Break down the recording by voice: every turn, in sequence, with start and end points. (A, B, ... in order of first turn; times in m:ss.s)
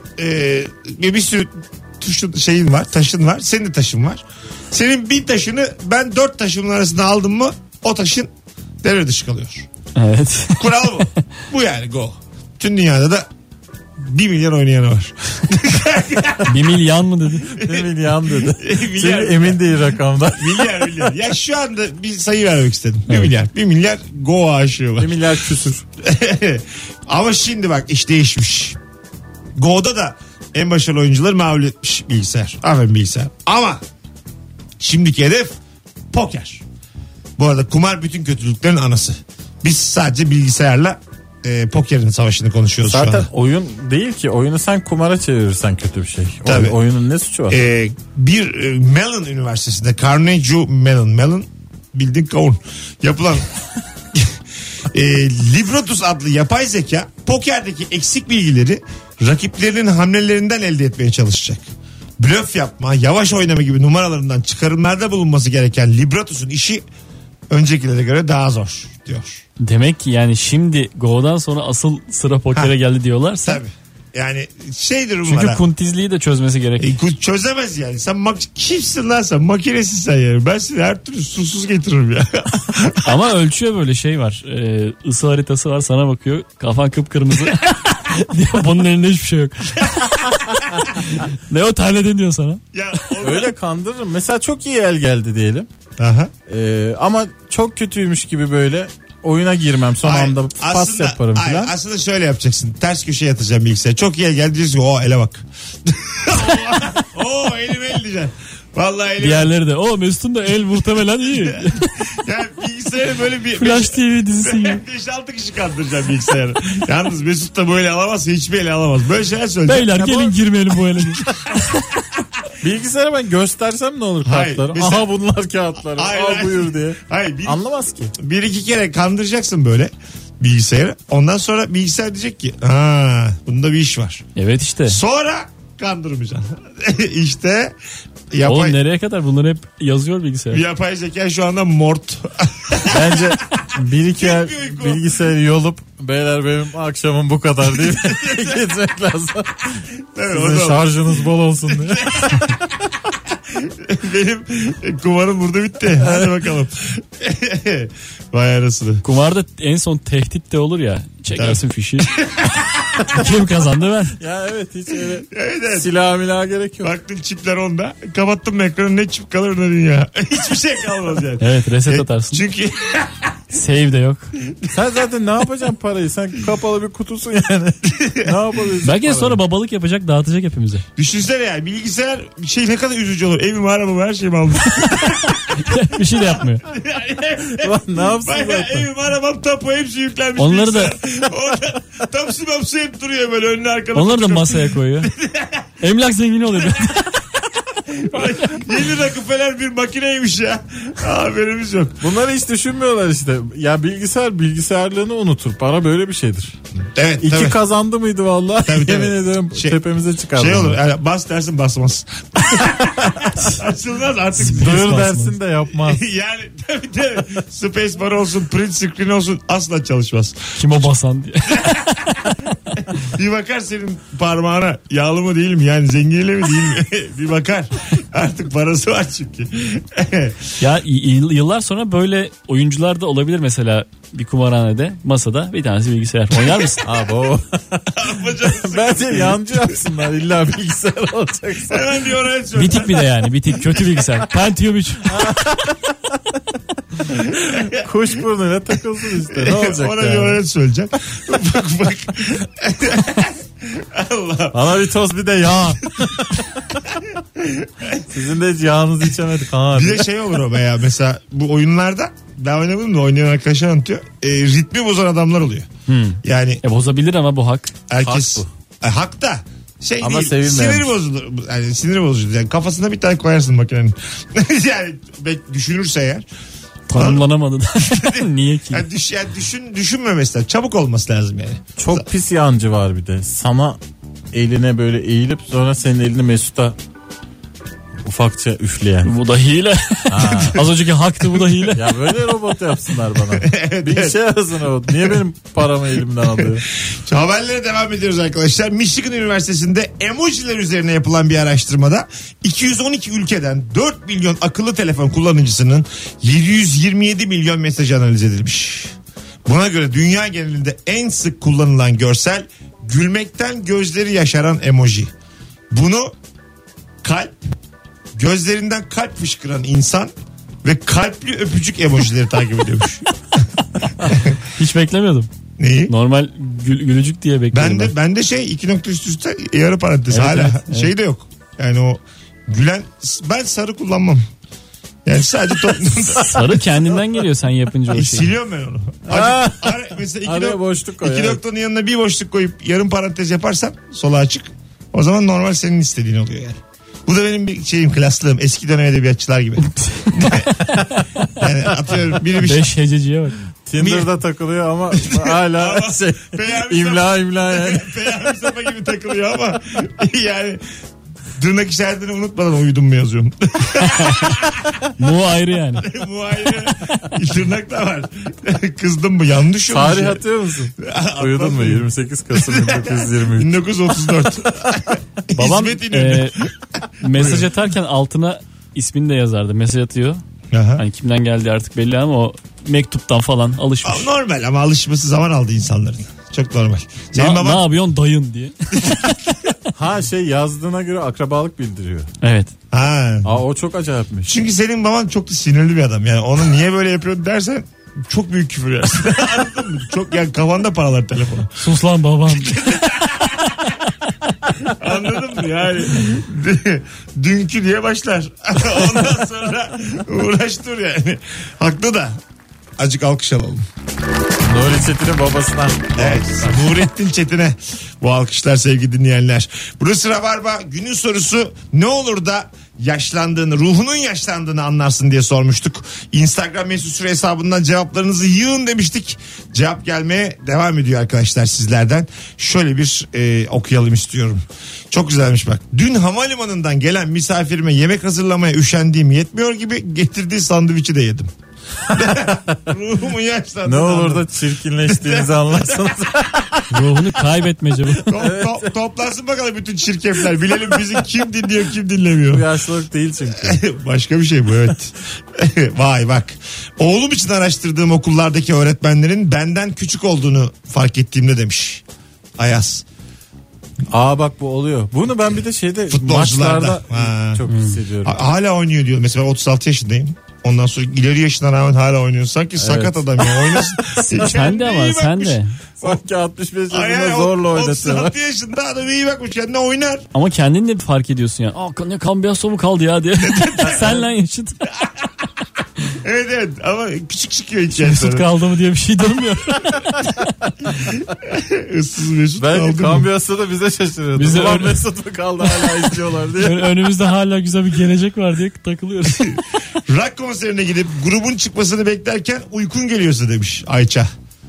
0:00.2-0:08.3 A
0:08.8-0:09.7 A
0:10.0-0:11.1 B
0:10.6-0:13.3 A
0:14.0-0:16.6 A
0:16.4-0:17.6 B
0:17.5-0:19.7 A
0:17.5-0:21.0 C
0:20.3-0:25.3 A
0:25.0-0:25.8 C
0:26.0-0:28.8 A
0:29.6-0:33.8 A
0:34.8-0:35.6 A
0:36.1-0:36.6 A
0:37.4-0:43.3 A
0:42.9-0:47.6 C
0:46.4-0:46.8 A
0:47.5-0:53.5 A
0:54.1-1:01.6 A
1:02.2-1:06.8 A
1:07.5-1:09.4 A
1:09.6-1:13.6 B
1:13.4-1:15.6 A
1:15.3-1:17.0 B
1:16.8-1:23.1 A
1:23.0-1:30.2 B
1:29.8-1:30.3 A
1:30.8-1:33.1 B
1:32.7-1:33.5 A
1:33.2-1:35.7 C
1:36.0-1:36.3 A
1:36.5-1:41.7 C
1:40.0-1:49.5 A
1:49.2-1:52.0 B
1:51.4-2:00.2 A
1:53.6-1:54.8 B
1:59.7-2:01.8 B
2:00.0-2:00.3 C
2:02.6-2:08.1 C
2:04.2-2:05.1 A
2:05.9-2:07.6 A
2:08.2-2:14.2 A
2:14.4-2:15.0 B
2:14.9-2:17.8 A
2:18.3-2:18.8 A
2:18.4-2:20.6 B
2:20.5-2:25.1 A
2:22.9-2:32.4 C
2:28.0-2:28.6 A
2:30.1-2:31.0 A
2:31.7-2:32.7 A
2:33.3-2:39.0 A
2:35.9-2:36.4 C
2:39.0-2:42.2 B
2:41.3-2:43.1 A
2:43.0-2:44.2 B
2:44.2-2:46.9 C
2:45.3-2:45.9 A
2:46.8-2:53.4 A
2:51.4-2:52.4 B
2:53.5-2:54.3 B
2:54.5-2:54.8 A
2:54.7-2:59.4 C
2:57.9-2:58.4 A
2:58.8-3:00.9 B
3:01.0-3:15.7 A
3:05.5-3:06.6 B
3:07.5-3:08.9 C
3:10.4-3:11.0 B
3:13.9-3:15.1 B
3:15.8-3:17.3 B
3:17.8-3:22.0 A
3:18.2-3:18.6 B
3:22.0-3:26.6 C
3:26.8-3:27.6 A
3:27.2-3:30.8 C
3:28.6-3:29.8 A
3:30.4-3:34.9 A
3:34.4-3:35.4 B
3:34.4-3:36.1 C
3:35.8-3:40.9 A
3:40.6-3:42.3 B
3:41.6-3:41.9 A
3:42.8-3:50.5 A
3:50.6-3:56.8 B
3:56.8-3:58.0 C
3:57.9-3:59.7 A
3:58.5-4:02.0 C
4:01.7-4:04.0 A
4:02.6-4:05.2 B
4:05.1-4:05.8 C
4:07.1-4:07.9 A
4:07.7-4:10.4 C
4:09.3-4:14.7 A
4:14.5-4:16.6 C
4:15.9-4:16.4 A
4:17.0-4:18.1 A
4:18.1-4:20.2 C
4:19.7-4:25.7 A
4:25.9-4:27.7 B
4:26.2-4:26.6 A
4:27.9-4:36.3 A
4:28.0-4:28.5 C
4:30.0-4:31.0 C
4:36.9-4:38.9 B
4:36.9-4:37.2 A
4:37.8-4:42.0 A
4:41.8-4:43.8 C
4:44.3-4:46.8 C
4:48.0-4:49.1 C
4:49.0-4:52.0 B
4:50.1-4:50.8 C
4:51.4-4:56.7 C
4:53.4-4:54.2 A
4:54.9-4:55.2 A
4:56.4-5:08.9 A
5:09.4-5:15.1 A
5:15.7-5:16.2 A
5:17.0-5:17.4 A
5:18.2-5:23.5 A
5:24.1-5:24.4 A
5:24.4-5:25.3 B
5:25.6-5:25.9 A
5:25.9-5:27.9 B
5:27.5-5:34.2 A
5:30.1-5:30.9 B
5:35.0-5:36.4 A
5:35.7-5:36.4 C
5:36.2-5:38.3 B
5:37.9-5:50.6 A
5:39.1-5:41.4 C
5:49.7-5:51.3 B
5:51.4-5:52.7 A
5:52.4-5:53.4 B
5:53.7-5:57.9 C
5:53.8-5:54.1 A
5:54.9-6:00.6 A
6:01.3-6:04.7 A
6:03.8-6:04.4 B
6:05.0-6:05.9 B
6:05.8-6:10.2 A
6:09.7-6:13.6 C
6:10.8-6:17.5 A
6:15.3-6:16.4 B
6:17.0-6:20.2 B
6:20.5-6:20.8 A
6:20.8-6:24.1 B
6:23.8-6:27.7 A
6:27.2-6:29.3 B
6:29.8-6:32.1 C
6:32.2-6:32.5 B
6:32.7-6:33.4 A
6:33.2-6:34.3 C
6:34.3-6:41.6 A
6:41.6-6:43.4 B
6:42.3-6:43.7 A
6:44.6-6:52.2 A
6:52.8-6:53.7 A
6:54.5-6:56.6 C
6:56.0-7:21.3 A
7:21.9-7:24.3 A
7:23.6-7:27.0 C
7:24.8-7:26.0 A
7:26.7-7:28.2 B
7:28.1-7:32.5 A
7:28.1-7:28.7 C
7:32.3-7:33.6 C
7:33.3-7:41.8 A
7:42.4-7:42.8 A
7:43.9-7:48.2 C
7:45.9-7:47.4 A
7:47.5-7:47.8 B
7:48.0-7:56.0 A
7:52.6-7:54.3 C
7:54.2-7:55.6 B
7:55.8-7:58.2 C
7:56.7-8:00.0 A
8:00.1-8:04.6 B
8:03.2-8:04.1 A
8:04.7-8:05.3 A
8:05.8-8:08.2 A
8:07.7-8:10.2 B
8:10.9-8:13.1 A
8:12.4-8:16.8 C
8:14.2-8:14.8 B
8:16.4-8:19.4 B
8:19.1-8:24.1 A